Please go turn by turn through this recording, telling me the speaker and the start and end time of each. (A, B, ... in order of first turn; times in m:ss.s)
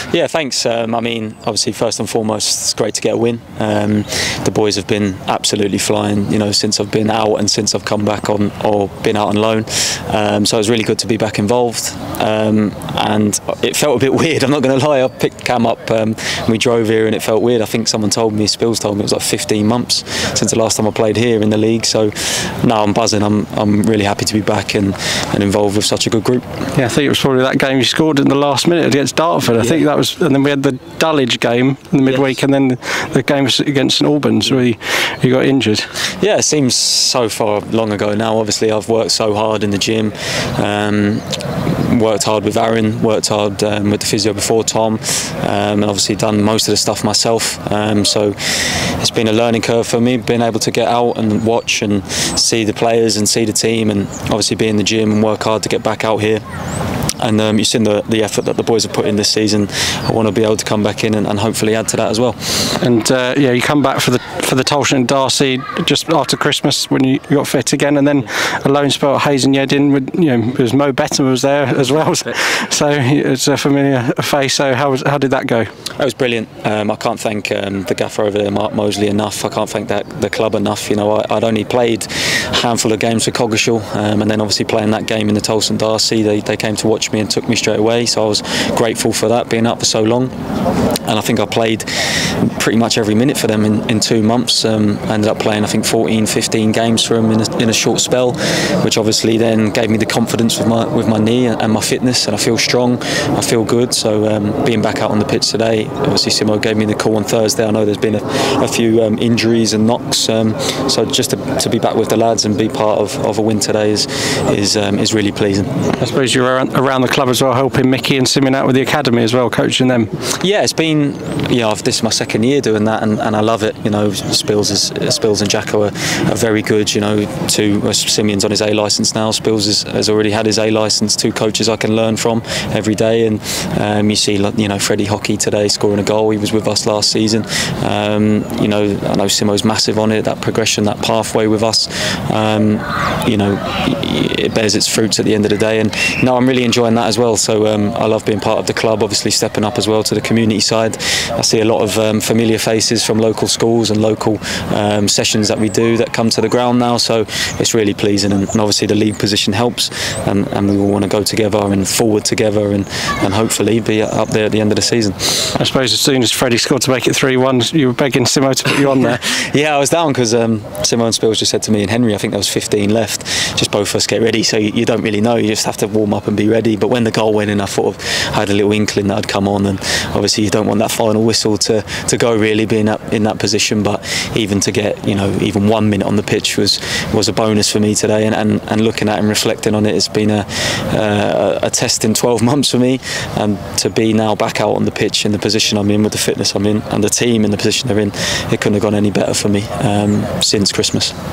0:00.1-0:26.4 A
0:26.8-0:35.8 B
0:36.2-0:56.4 A
0:57.2-1:02.8 A
1:02.8-1:15.7 B
1:16.0-1:30.3 A
1:31.1-1:55.7 A
1:56.0-2:00.1 B
2:00.4-2:45.5 A
2:45.6-2:49.2 B
2:49.1-3:21.1 A